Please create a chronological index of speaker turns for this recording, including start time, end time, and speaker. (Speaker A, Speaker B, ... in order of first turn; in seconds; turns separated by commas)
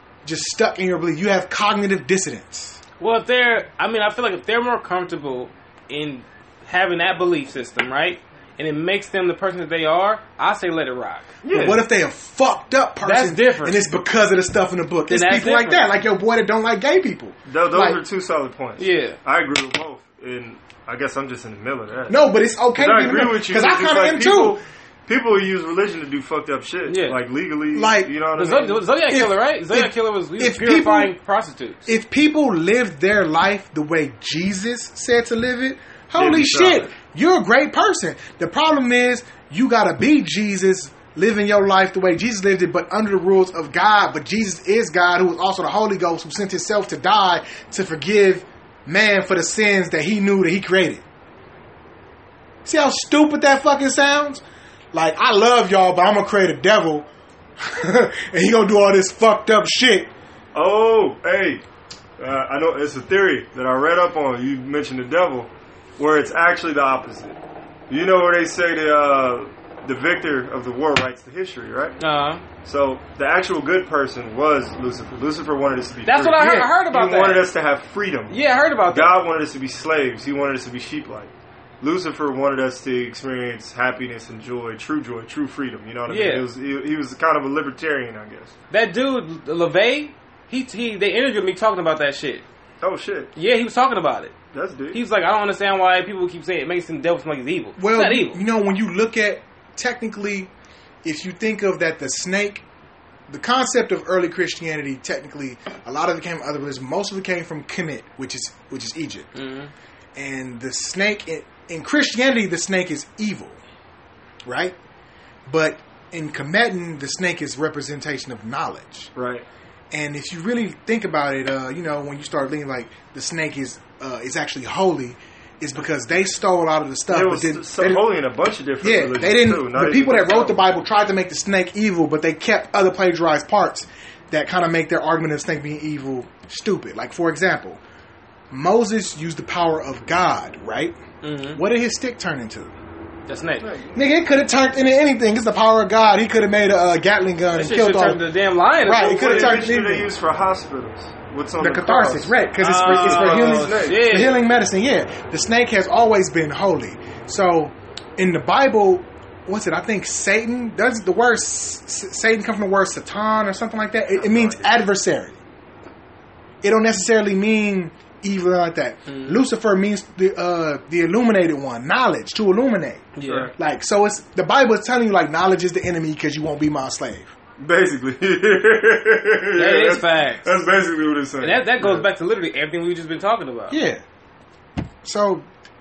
Speaker A: 0.2-2.8, Speaker B: 3.0-11.3, Speaker C: 11.4-11.8, Speaker A: 11.5-18.0, Speaker B: 13.0-13.9, Speaker B: 15.1-15.9, Speaker C: 17.5-22.2, Speaker B: 18.8-19.2, Speaker A: 22.1-24.6, Speaker C: 22.7-28.8, Speaker B: 26.9-27.2, Speaker A: 27.7-28.1, Speaker B: 28.4-31.9, Speaker A: 29.1-31.1, Speaker A: 31.9-51.0, Speaker C: 36.1-36.9, Speaker A: 52.6-54.4, Speaker A: 54.9-57.1, Speaker A: 57.6-60.1, Speaker C: 60.5-61.6, Speaker C: 62.2-67.4, Speaker C: 67.9-72.0, Speaker B: 72.0-72.4, Speaker C: 72.6-78.4, Speaker B: 76.0-77.4, Speaker A: 76.4-76.7, Speaker B: 78.3-79.1, Speaker C: 78.9-88.5, Speaker B: 86.1-86.4, Speaker B: 88.7-92.4, Speaker C: 92.8-93.3, Speaker B: 93.3-94.3, Speaker C: 94.5-95.0, Speaker B: 94.9-98.4, Speaker A: 97.8-100.5, Speaker A: 101.0-102.6, Speaker A: 103.3-109.3, Speaker B: 109.3-109.7, Speaker A: 110.1-113.6, Speaker A: 114.4-114.8, Speaker A: 115.5-119.1, Speaker C: 119.2-119.4, Speaker A: 119.9-128.1, Speaker C: 127.1-130.6, Speaker A: 128.8-137.8, Speaker A: 138.5-141.0, Speaker B: 141.2-141.6, Speaker A: 141.5-142.7, Speaker B: 143.3-143.7, Speaker C: 143.6-144.0, Speaker A: 143.9-148.2, Speaker B: 147.5-149.6, Speaker A: 148.8-150.1, Speaker C: 149.0-154.1, Speaker A: 151.6-165.4, Speaker B: 152.6-154.4, Speaker C: 164.2-164.8, Speaker A: 166.6-177.3, Speaker B: 169.1-169.4, Speaker B: 173.2-173.5, Speaker C: 173.2-173.5, Speaker C: 177.6-182.1, Speaker B: 179.6-180.5, Speaker B: 181.4-183.8, Speaker A: 183.7-184.0, Speaker A: 185.0-185.4